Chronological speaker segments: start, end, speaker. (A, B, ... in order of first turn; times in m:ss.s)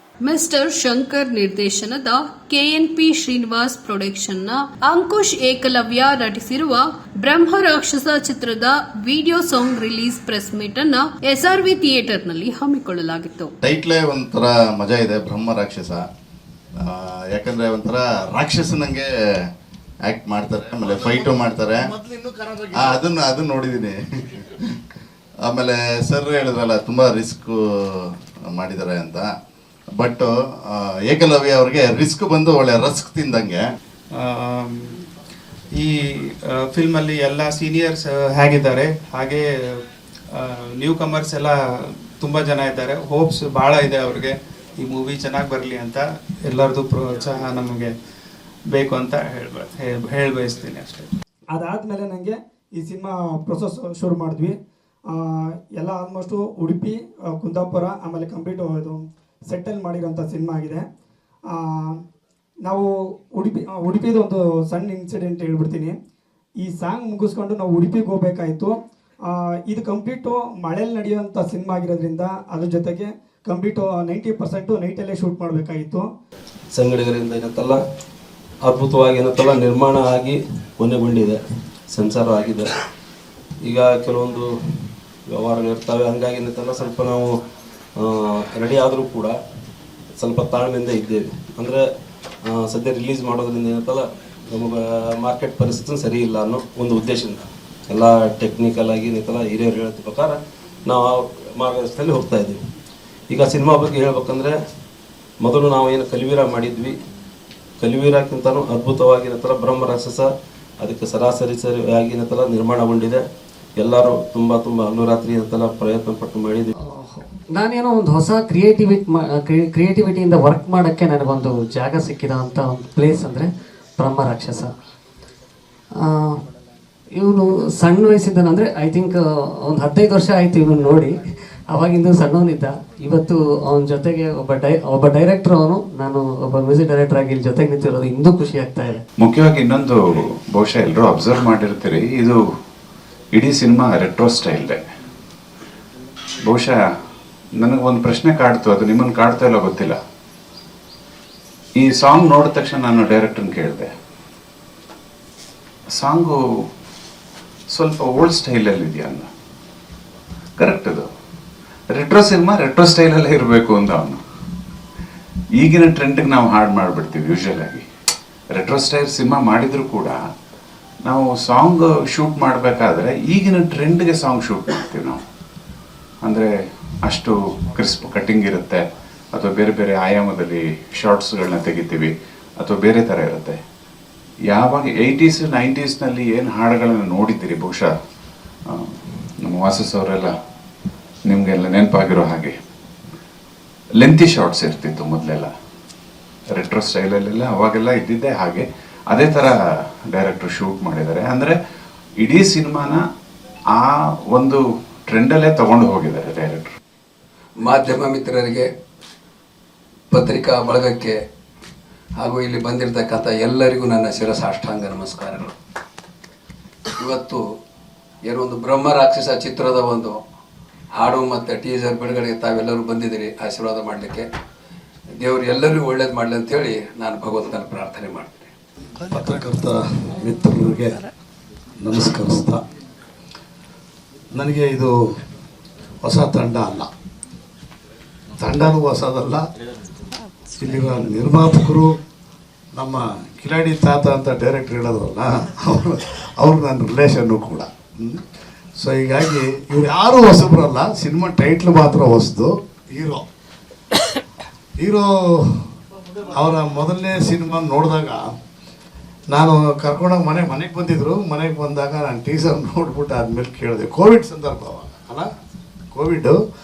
0:00.2-0:13.5 A
0:13.6-0:16.0 B
0:16.8-0:19.1 B
0:20.1-0:21.9 B
0:20.8-0:21.2 C
0:22.0-0:22.9 C
0:22.7-0:24.6 B
0:25.4-0:27.6 B
0:28.5-0:29.3 B
0:30.0-0:33.6 B
0:34.2-0:34.9 D
0:35.8-0:39.4 D
0:40.4-0:41.6 D
0:42.2-0:48.0 D
0:48.7-0:51.1 D
0:51.5-0:54.5 E
0:55.2-1:00.8 E
1:01.5-1:01.9 E
1:02.6-1:05.9 E
1:06.6-1:08.7 E
1:09.7-1:16.0 E
1:16.7-1:17.8 F
1:18.6-1:22.7 F
1:23.6-1:27.4 F
1:28.0-1:29.4 F
1:30.2-1:31.8 F
1:32.4-1:42.6 F
1:43.3-1:44.6 F
1:45.4-1:47.0 F
1:47.8-1:53.2 F
1:53.8-1:56.7 F
1:56.8-2:04.7 G
2:06.0-2:06.4 G
2:07.1-2:19.0 G
2:19.2-2:20.0 H
2:20.5-2:22.4 H
2:23.3-2:24.7 H
2:26.5-2:26.8 H
2:27.6-2:30.0 H
2:31.8-2:33.9 H
2:36.0-2:36.4 H
2:37.7-2:39.3 H
2:40.6-2:41.1 H
2:41.9-2:44.2 H
2:45.6-2:47.8 H
2:48.5-2:50.2 H
2:51.0-2:55.2 H
2:56.2-2:56.5 H
2:57.0-3:03.6 H
3:04.5-3:07.9 H
3:08.7-3:10.3 H
3:11.2-3:12.6 H
3:14.0-3:15.5 H
3:16.5-3:19.5 H
3:20.1-3:21.6 H
3:22.2-3:23.0 H
3:23.7-3:26.7 H
3:27.6-3:28.7 I
3:30.1-3:31.2 I
3:32.2-3:35.5 I
3:36.9-3:37.4 I
3:38.2-3:40.2 I
3:40.9-3:44.3 I
3:45.2-3:48.5 I
3:49.1-3:51.0 C
3:51.8-3:52.6 C
3:54.3-3:54.9 C
3:56.0-3:56.9 C
3:58.4-3:59.4 C
4:00.6-4:02.0 C
4:02.7-4:08.2 C
4:08.8-4:13.2 C
4:14.8-4:15.7 C
4:16.2-4:18.2 C
4:19.3-4:25.3 C
4:25.9-4:26.4 C